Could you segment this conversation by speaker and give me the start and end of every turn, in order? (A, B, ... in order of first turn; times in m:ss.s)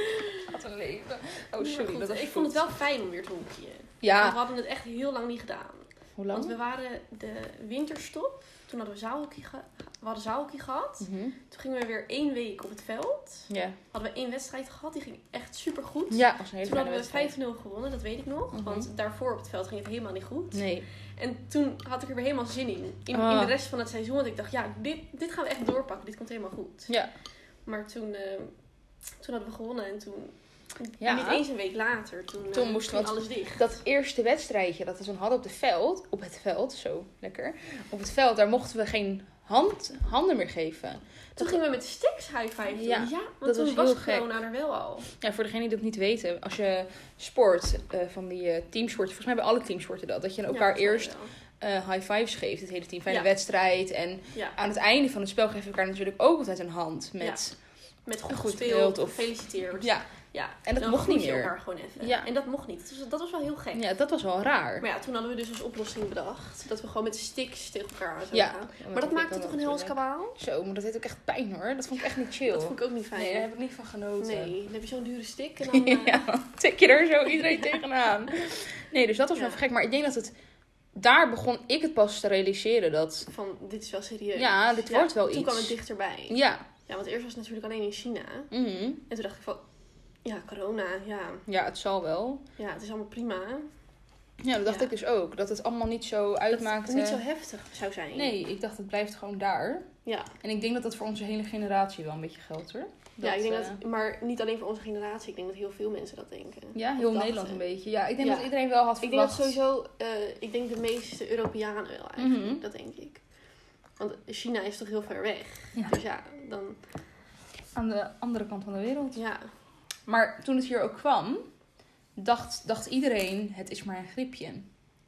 0:00.4-0:02.6 A
0:01.6-0:26.9 B
0:04.0-0:04.4 A
0:06.2-0:06.6 A
0:11.0-0:11.4 A
0:13.5-0:13.8 A
0:16.1-0:17.4 A
0:18.5-0:18.9 A
0:20.5-0:20.9 A
0:23.1-0:23.5 A
0:27.6-0:28.5 B
0:29.2-0:33.7 B
0:31.0-0:31.4 A
0:32.5-0:41.6 A
0:41.4-0:45.1 B
0:42.7-0:44.3 A
0:45.1-0:57.6 A
0:50.5-0:51.3 B
0:58.0-1:03.8 B
0:58.3-1:00.1 A
1:00.6-1:02.3 A
1:03.7-1:04.8 A
1:04.8-1:10.4 B
1:08.3-1:14.5 A
1:12.3-1:13.5 B
1:14.2-1:16.2 B
1:15.7-1:20.3 A
1:17.3-1:17.8 B
1:19.3-1:19.6 B
1:20.9-1:23.3 A
1:23.3-1:28.5 B
1:24.4-1:25.7 A
1:26.3-1:26.6 A
1:28.5-1:29.0 A
1:29.1-1:29.6 B
1:30.2-1:31.4 B
1:31.5-1:32.4 A
1:32.6-1:33.7 B
1:34.4-1:37.2 A
1:36.5-1:38.3 B
1:38.1-1:39.9 A
1:40.0-1:40.3 B
1:40.4-1:43.8 A
1:43.2-1:47.6 B
1:46.7-1:49.6 A
1:48.2-1:48.5 B
1:49.0-1:53.2 B
1:52.2-1:52.6 A
1:54.0-1:56.8 B
1:57.7-1:59.2 A
1:59.1-1:59.5 B
2:00.0-2:01.5 A
2:02.2-2:04.7 A